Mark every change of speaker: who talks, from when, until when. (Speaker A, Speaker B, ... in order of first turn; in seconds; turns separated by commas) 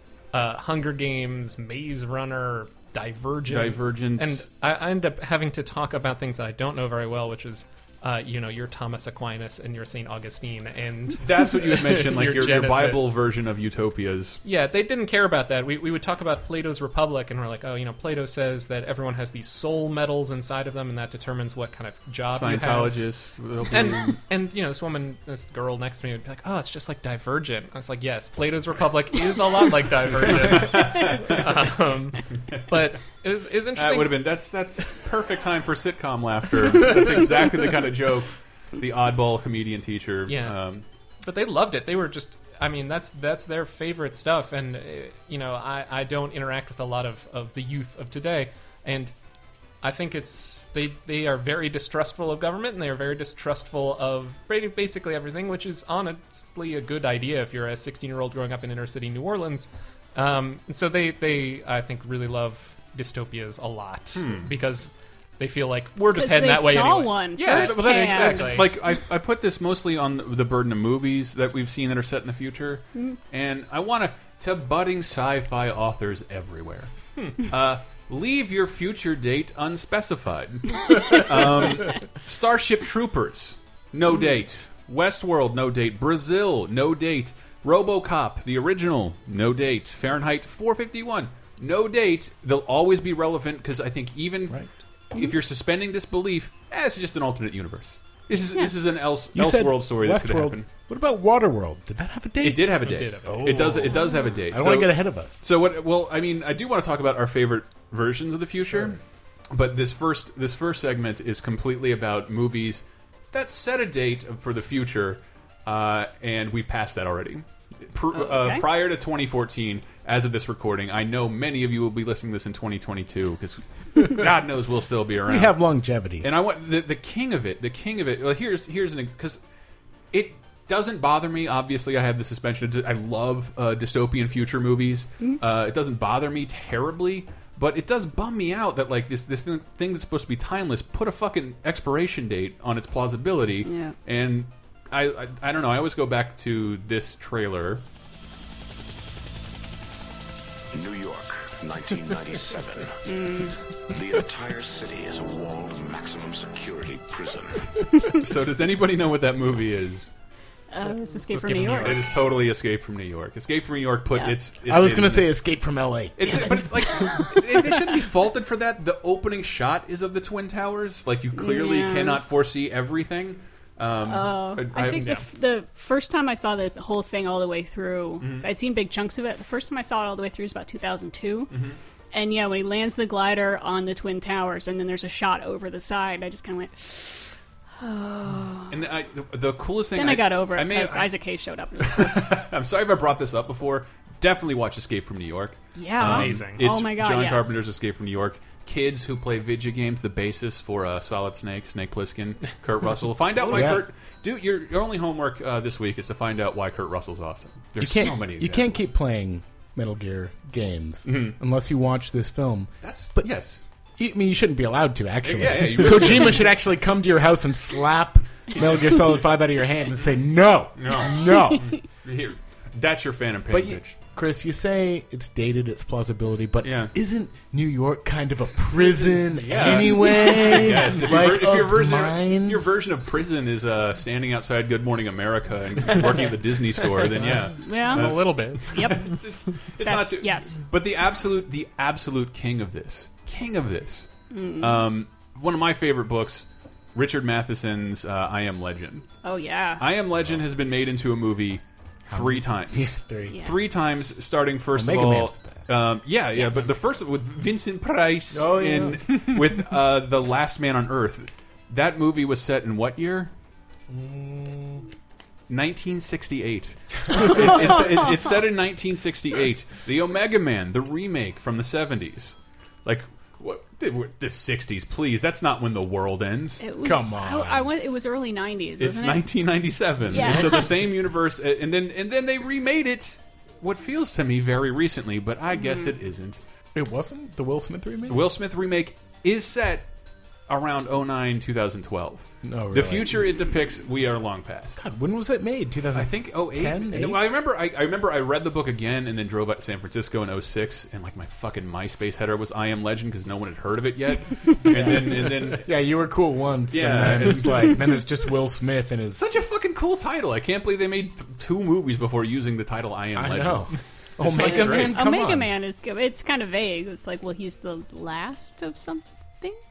Speaker A: 0.3-13.1, Speaker B: 3.5-4.4, Speaker B: 11.2-14.4, Speaker A: 14.4-23.0, Speaker B: 22.3-24.2, Speaker A: 23.7-34.2, Speaker B: 30.3-31.4, Speaker B: 33.7-40.8, Speaker A: 40.3-40.6, Speaker A: 41.2-49.1, Speaker A: 49.8-68.7, Speaker B: 64.2-64.5, Speaker C: 66.1-68.7, Speaker B: 67.4-100.7, Speaker D: 99.3-105.4, Speaker B: 102.4-109.0, Speaker A: 102.8-103.8, Speaker C: 103.9-104.4, Speaker D: 108.7-109.0, Speaker B: 109.5-125.6, Speaker C: 118.1-118.7, Speaker D: 125.2-126.3, Speaker B: 126.2-129.4, Speaker B: 130.1-147.8, Speaker C: 143.6-143.9, Speaker E: 150.7-157.8, Speaker C: 153.1-153.5, Speaker B: 158.1-160.1, Speaker C: 160.7-162.2, Speaker A: 161.1-162.0, Speaker B: 161.8-165.3, Speaker D: 164.7-166.8, Speaker B: 166.2-175.2, Speaker C: 166.9-167.5, Speaker C: 171.3-172.2, Speaker C: 174.0-181.5, Speaker A: 174.9-175.2, Speaker B: 178.2-178.5, Speaker B: 181.5-181.8, Speaker C: 182.1-188.8, Speaker B: 188.7-191.1, Speaker C: 189.9-192.3, Speaker B: 191.8-208.8, Speaker C: 195.8-197.6, Speaker A: 196.0-196.6, Speaker D: 203.4-203.9, Speaker D: 207.8-213.3, Speaker B: 211.1-211.4, Speaker B: 212.8-213.6, Speaker D: 214.0-221.7, Speaker B: 215.2-216.5, Speaker B: 218.6-219.0, Speaker B: 220.8-223.9, Speaker D: 223.5-232.8, Speaker B: 226.6-226.9, Speaker B: 229.3-249.1, Speaker A: 237.6-239.1, Speaker C: 237.6-239.2, Speaker C: 239.8-240.6, Speaker C: 244.3-244.9, Speaker C: 249.2-249.8, Speaker B: 249.8-263.3, Speaker D: 252.1-253.5, Speaker C: 253.3-253.5, Speaker D: 254.7-255.7, Speaker C: 256.3-256.7, Speaker D: 258.3-259.2, Speaker D: 263.9-264.9, Speaker B: 265.5-276.6, Speaker C: 276.6-279.3, Speaker D: 276.8-277.7, Speaker B: 278.8-286.4, Speaker C: 280.1-280.8, Speaker D: 280.1-280.7, Speaker C: 285.5-285.9, Speaker D: 286.7-288.3, Speaker B: 288.1-289.9, Speaker B: 290.5-294.8, Speaker D: 292.4-293.3, Speaker D: 294.7-297.3, Speaker B: 295.9-305.7, Speaker D: 304.7-309.3, Speaker B: 306.7-307.9, Speaker B: 309.2-315.0, Speaker D: 313.1-315.5, Speaker C: 314.3-319.6